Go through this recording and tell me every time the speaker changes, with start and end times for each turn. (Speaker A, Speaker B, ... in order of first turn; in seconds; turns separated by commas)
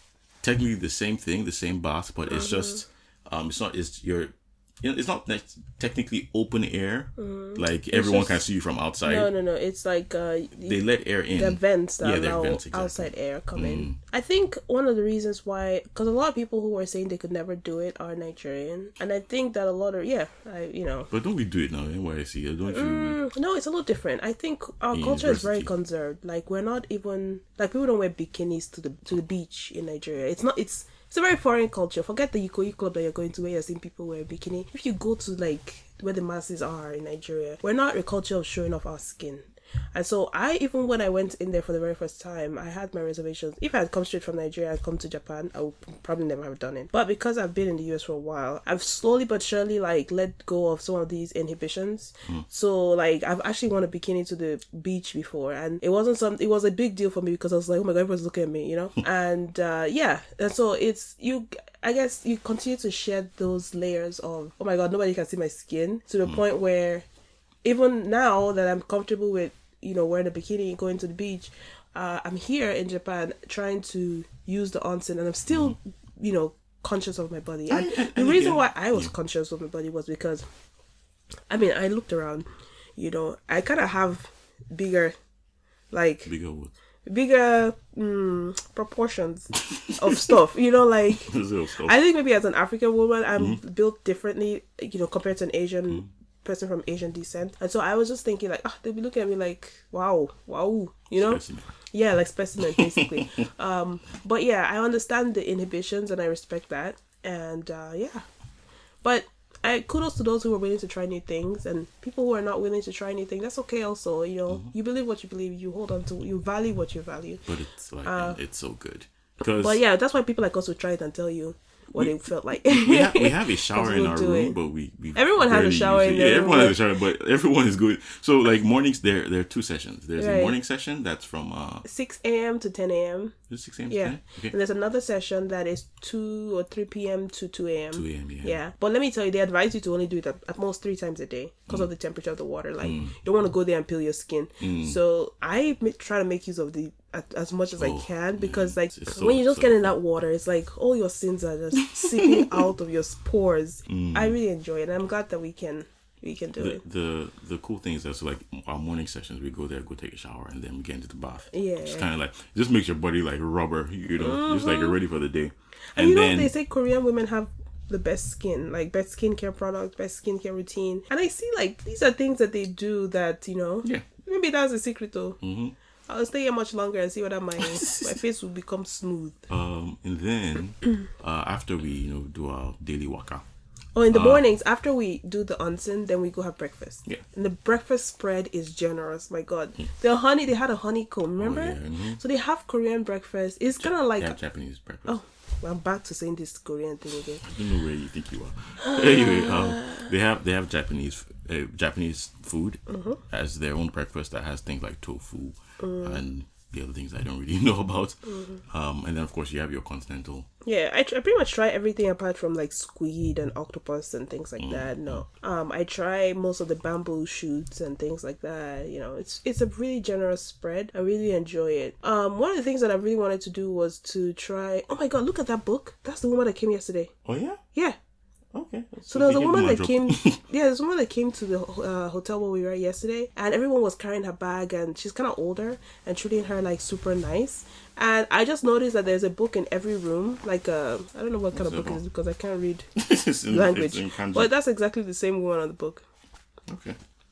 Speaker A: 0.4-9.3, Speaker B: 2.3-2.8, Speaker B: 7.2-8.4, Speaker B: 9.0-21.1, Speaker A: 10.6-14.0, Speaker A: 21.1-23.2, Speaker B: 22.7-67.1, Speaker A: 24.9-25.7, Speaker B: 67.6-80.5, Speaker A: 75.5-75.8, Speaker A: 77.7-79.1, Speaker B: 81.5-85.1, Speaker B: 85.9-86.3, Speaker A: 86.3-86.7, Speaker B: 87.1-101.4, Speaker A: 89.7-90.3, Speaker A: 91.1-92.0, Speaker A: 101.1-101.7, Speaker B: 101.9-108.2, Speaker A: 102.6-103.3, Speaker B: 109.0-117.5, Speaker A: 117.5-119.8, Speaker B: 118.0-118.4, Speaker B: 119.5-124.6, Speaker A: 122.0-131.8, Speaker B: 125.2-126.8, Speaker B: 130.2-130.6, Speaker B: 131.8-133.3, Speaker A: 133.5-134.6, Speaker B: 133.9-156.8, Speaker A: 137.9-138.6, Speaker A: 142.8-143.2, Speaker A: 144.6-145.0, Speaker A: 147.8-149.9, Speaker A: 152.3-152.7, Speaker A: 153.9-154.4, Speaker A: 156.6-166.5, Speaker B: 161.5-162.1, Speaker B: 164.2-165.0, Speaker B: 166.0-175.4, Speaker A: 175.4-175.8, Speaker B: 176.1-179.5, Speaker A: 177.6-178.2, Speaker A: 179.5-183.4, Speaker B: 183.9-194.4, Speaker A: 184.1-184.4, Speaker A: 191.4-192.2, Speaker A: 193.8-195.2, Speaker B: 195.1-197.5, Speaker A: 197.4-210.5, Speaker B: 198.8-200.1, Speaker B: 202.9-203.2, Speaker B: 205.8-206.2, Speaker B: 208.2-208.6, Speaker B: 210.6-227.1, Speaker A: 214.6-215.2, Speaker A: 227.2-227.6, Speaker A: 228.5-230.4, Speaker B: 229.1-242.9, Speaker A: 241.5-242.0, Speaker A: 243.0-244.5, Speaker B: 243.5-246.0, Speaker A: 246.7-247.0